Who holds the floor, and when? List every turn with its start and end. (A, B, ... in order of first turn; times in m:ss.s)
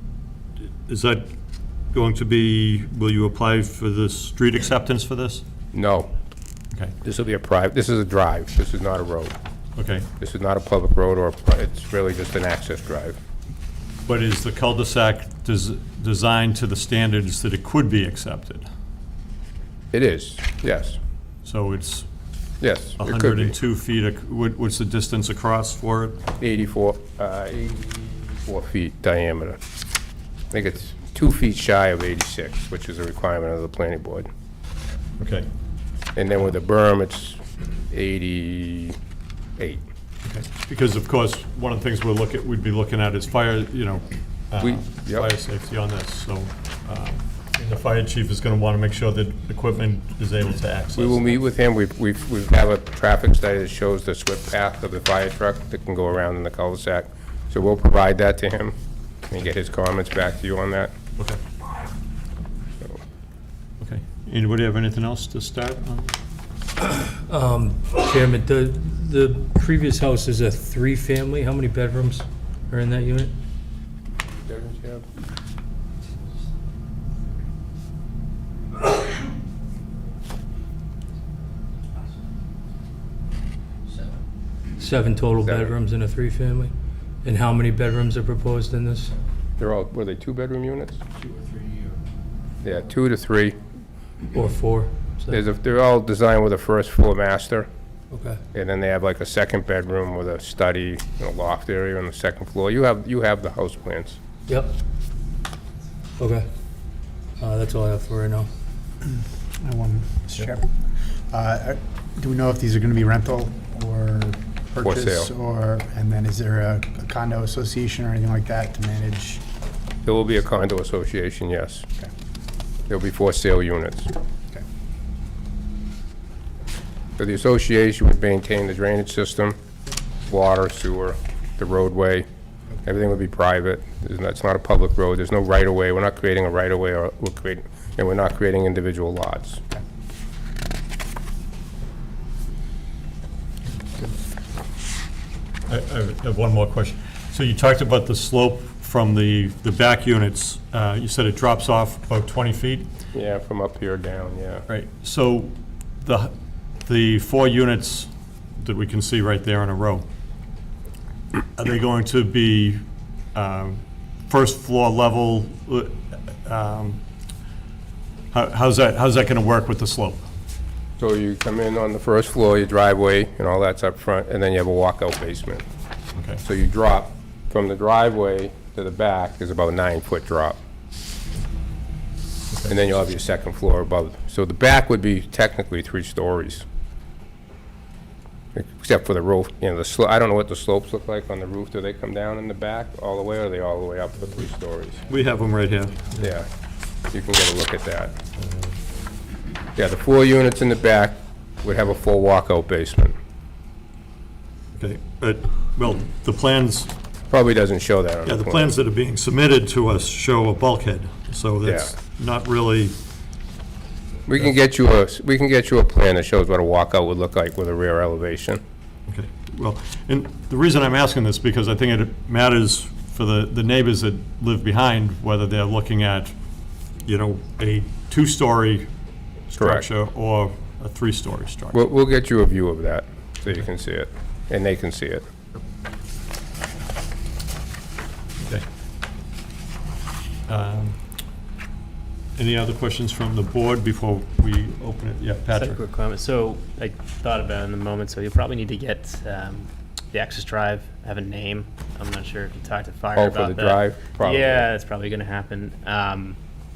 0:00.9-0:01.2 A
0:01.9-0:05.4 A
0:05.7-0:06.1 B
0:07.0-0:09.4 B
0:09.8-0:10.1 A
0:10.2-0:13.2 B
0:14.0-0:18.7 A
0:19.9-0:21.0 B
0:21.4-0:22.1 A
0:22.6-0:23.5 B
0:23.0-0:26.2 A
0:26.4-0:29.6 B
0:30.5-0:34.3 B
0:35.2-0:35.4 A
0:36.2-0:39.0 B
0:39.6-0:39.8 B
0:40.2-0:51.3 A
0:44.6-0:45.3 B
0:51.0-0:58.8 B
0:59.3-1:00.9 B
1:03.8-1:06.1 A
1:07.3-1:13.3 C
1:14.2-1:15.1 B
1:24.8-1:26.7 C
1:25.4-1:25.8 B
1:27.2-1:29.1 C
1:29.6-1:31.0 B
1:32.6-1:33.6 B
1:34.3-1:35.4 C
1:35.3-1:37.7 B
1:38.1-1:38.4 C
1:38.5-1:44.2 B
1:44.5-1:44.7 C
1:46.2-1:46.5 C
1:47.4-1:48.5 C
1:49.6-1:50.7 D
1:51.3-1:59.4 D
1:54.8-1:55.3 B
2:00.0-2:01.9 B
2:02.9-2:04.1 B
2:07.2-2:09.6 B
2:10.3-2:12.2 B
2:12.8-2:19.6 B
2:25.7-2:32.9 A
2:33.1-2:34.6 B
2:34.7-2:36.3 A
2:36.8-2:40.0 A
2:41.6-2:42.8 A
2:43.3-2:47.0 A
2:48.3-2:50.3 A
2:51.0-2:55.6 B
2:56.1-2:56.4 A
2:56.4-3:00.6 B
3:02.7-3:06.6 B
3:08.5-3:15.0 B
3:15.1-3:16.3 A
3:16.2-3:16.5 B
3:17.1-3:18.1 B
3:18.4-3:18.7 A
3:19.8-3:23.2 B
3:24.8-3:26.9 A
3:27.3-3:28.7 B
3:28.2-3:33.0 A
3:31.6-3:31.9 B
3:34.3-3:38.6 B
3:39.1-3:46.4 A
3:47.0-3:48.9 A
3:49.5-3:51.8 A
3:49.6-3:49.9 B
3:51.7-3:55.3 B
3:58.4-3:58.6 A
4:00.5-4:01.0 A
4:02.4-4:05.8 A
4:05.5-4:16.4 E
4:13.2-4:14.7 B